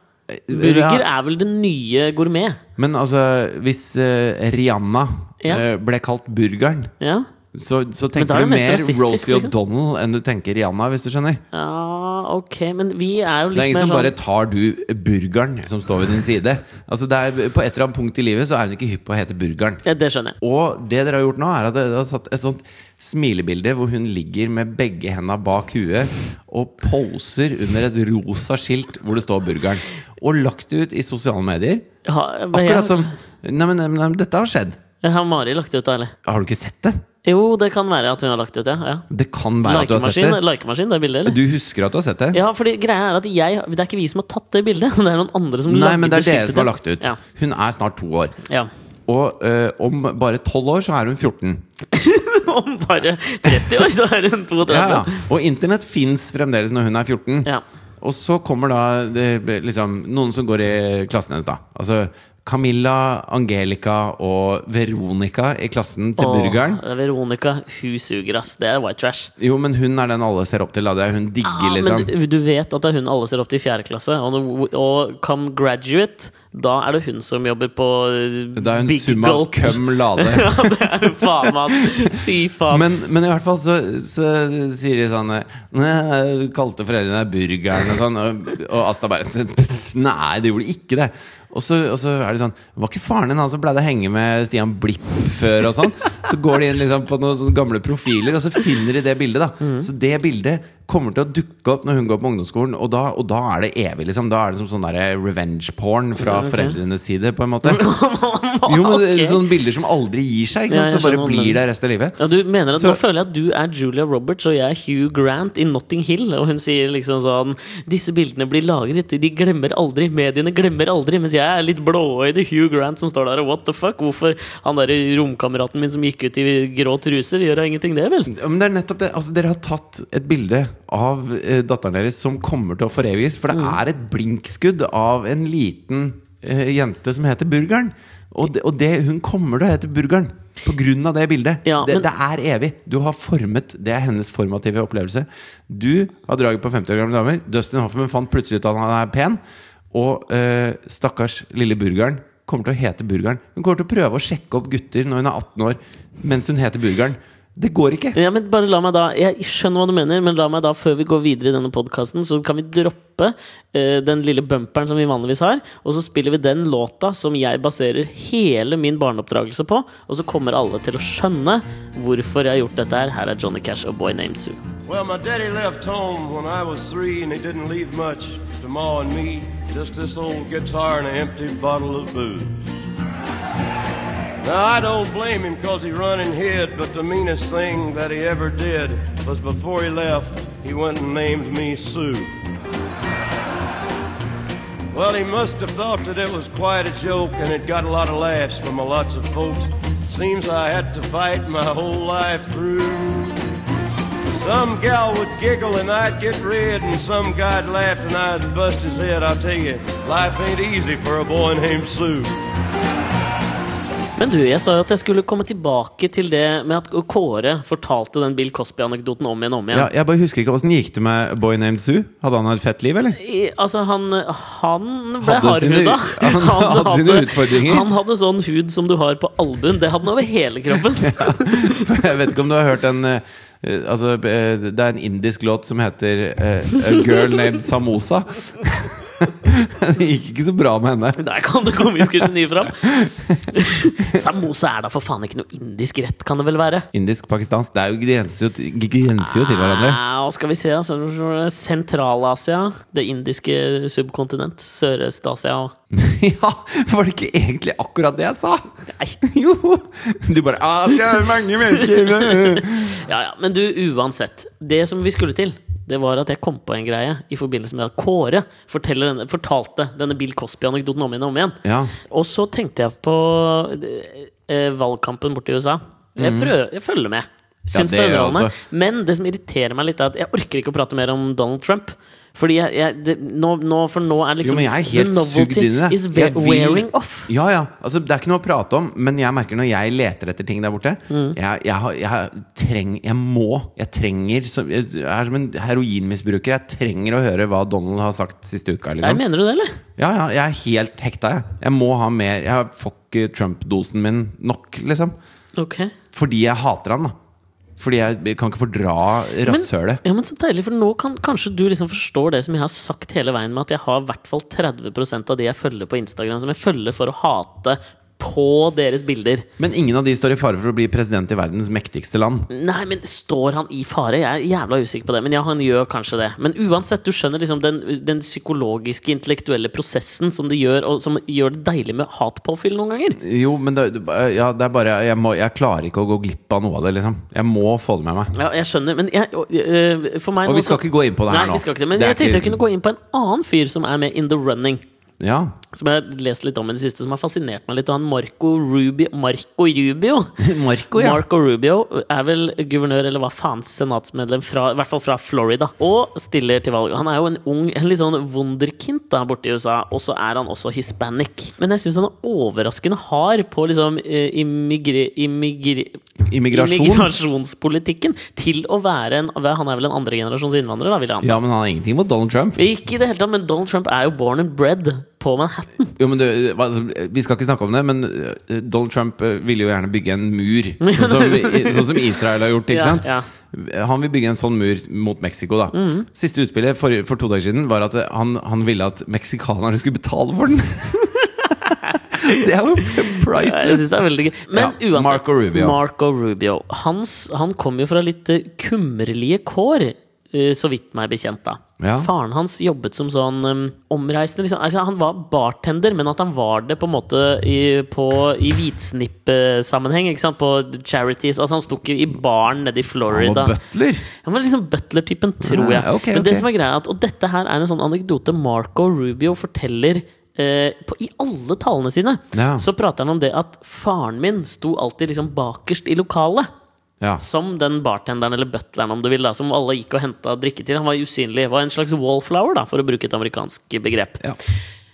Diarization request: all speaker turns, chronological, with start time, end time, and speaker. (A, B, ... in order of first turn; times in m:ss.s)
0:00.3-0:01.0 A
0:00.5-0:02.6 B
0:02.8-0:06.9 A
0:07.0-0:07.3 B
0:07.5-0:11.4 A
0:08.2-0:09.5 B
0:11.5-0:14.1 B
0:13.5-0:19.8 A
0:19.8-0:20.4 B
0:20.4-0:31.8 A
0:32.0-0:33.1 B
0:32.5-0:34.8 A
0:35.0-0:36.1 B
0:36.2-0:37.0 A
0:37.2-0:39.0 B
0:39.1-0:40.4 A
0:39.6-0:41.4 B
0:41.2-0:42.4 A
0:42.3-0:47.2 B
0:45.7-0:48.4 A
0:49.1-0:51.6 A
0:51.9-0:55.2 B
0:53.5-0:53.9 A
0:54.6-0:57.5 A
0:58.0-1:06.8 A
1:06.2-1:09.3 B
1:09.4-1:12.1 A
1:11.4-1:22.9 B
1:18.6-1:21.9 A
1:22.7-1:47.8 A
1:39.6-1:39.9 B
1:46.2-1:46.8 B
1:47.6-1:49.4 B
1:48.6-1:52.2 A
1:50.7-1:51.6 B
1:52.2-2:08.3 B
1:52.7-1:53.0 A
2:08.3-2:29.4 A
2:13.5-2:13.8 B
2:21.6-2:22.1 B
2:29.9-2:38.2 A
2:38.1-2:54.6 B
2:54.9-3:02.6 C
3:04.4-3:12.3 C
3:14.9-3:23.4 C
3:24.3-3:32.3 C
3:34.2-3:39.9 B
3:39.7-3:43.2 A
3:43.1-3:51.9 B
3:45.2-3:47.9 A
3:50.9-4:01.2 A
4:01.2-4:03.0 B
4:02.8-4:03.5 A
4:03.5-4:06.9 B
4:06.9-4:10.0 A
4:09.2-4:15.7 B
4:15.9-4:23.0 A
4:21.9-4:47.3 B
4:31.6-4:31.9 A
4:36.2-4:36.5 A
4:37.7-4:38.6 A
4:44.4-4:59.2 A
4:51.1-4:51.4 B
4:59.0-4:59.8 B
5:00.0-5:05.1 A
5:05.6-5:05.9 B
5:06.1-5:07.1 A
5:07.8-5:10.0 A
5:09.4-5:19.5 B
5:19.6-5:22.5 A
5:22.5-5:33.2 B
5:33.2-5:38.3 A
5:38.3-5:44.8 B
5:40.4-5:42.6 A
5:45.2-5:45.6 A
5:45.7-5:50.3 B
5:50.4-5:51.2 A
5:50.9-6:06.0 B
6:06.2-6:07.1 A
6:06.5-6:11.4 B
6:11.2-6:12.6 A
6:12.6-6:15.9 B
6:16.0-6:33.9 A
6:20.8-6:22.2 B
6:22.7-6:23.3 B
6:25.7-6:26.1 B
6:31.8-6:53.6 B
6:34.5-6:35.8 A
6:41.8-6:42.1 A
6:53.1-6:54.0 A
6:54.2-7:06.5 B
6:55.4-6:56.5 A
7:02.3-7:02.6 A
7:07.2-7:14.2 B